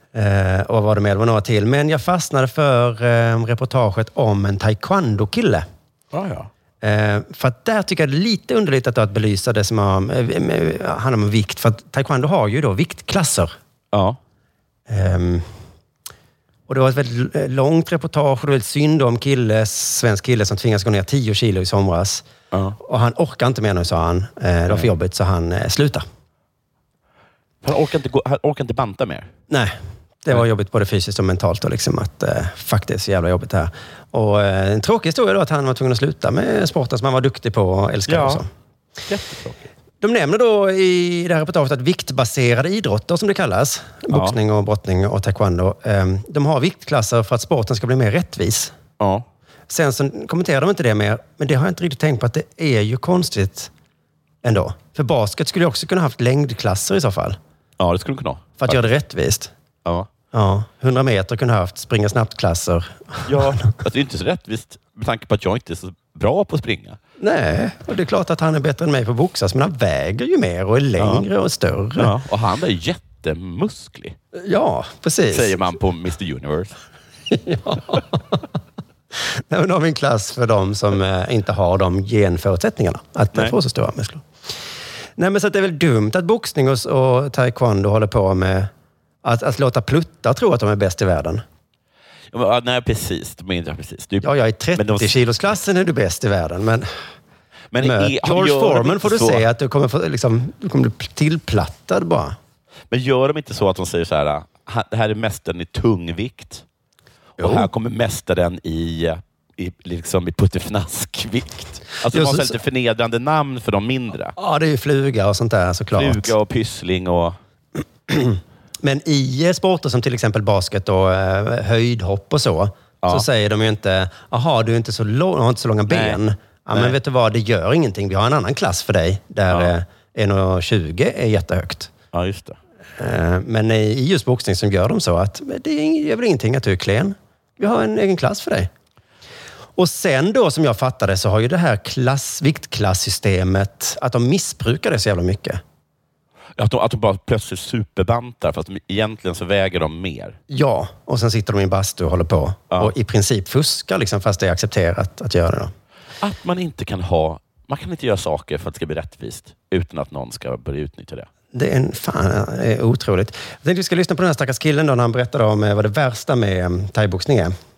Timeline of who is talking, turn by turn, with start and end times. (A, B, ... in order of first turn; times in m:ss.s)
0:00.1-0:05.7 A
0:06.1-0:06.5 B
0:06.8-0:13.6 A
0:13.9-0:14.2 B
0:14.9-0:15.5 A
0:16.7-0:22.2 A
0:22.5-0:22.8 B
0:22.8-0:26.0 A
0:27.6-0:29.3 B
0:29.5-0:38.5 A
0:38.1-0:38.4 B
0:39.1-0:39.6 B
0:40.0-0:48.7 A
0:44.1-0:44.4 B
0:49.0-0:49.3 B
0:49.7-0:53.7 A
0:54.4-0:57.4 A
0:57.8-0:58.8 B
0:58.6-0:59.5 A
1:00.3-1:03.6 A
1:03.3-1:07.0 B
1:07.2-1:12.1 A
1:11.0-1:11.2 B
1:12.0-1:14.2 B
1:14.3-1:15.6 A
1:15.3-1:16.8 B
1:17.3-1:18.4 A
1:19.2-1:24.3 A
1:25.2-1:28.7 A
1:29.2-1:31.4 A
1:32.3-1:35.2 B
1:34.2-1:37.0 A
1:37.7-1:39.5 B
1:37.8-1:42.4 A
1:42.9-1:46.6 B
1:47.4-1:54.4 B
1:47.4-1:47.7 A
1:52.1-1:52.6 A
1:54.4-1:56.4 A
1:55.9-1:57.4 B
1:58.1-2:11.9 A
2:05.9-2:06.2 B
2:12.1-2:12.6 B
2:13.0-2:18.7 A
2:19.8-2:25.6 A
2:26.6-2:30.4 B
2:30.5-2:35.7 A
2:36.2-2:41.3 B
2:41.5-2:47.6 A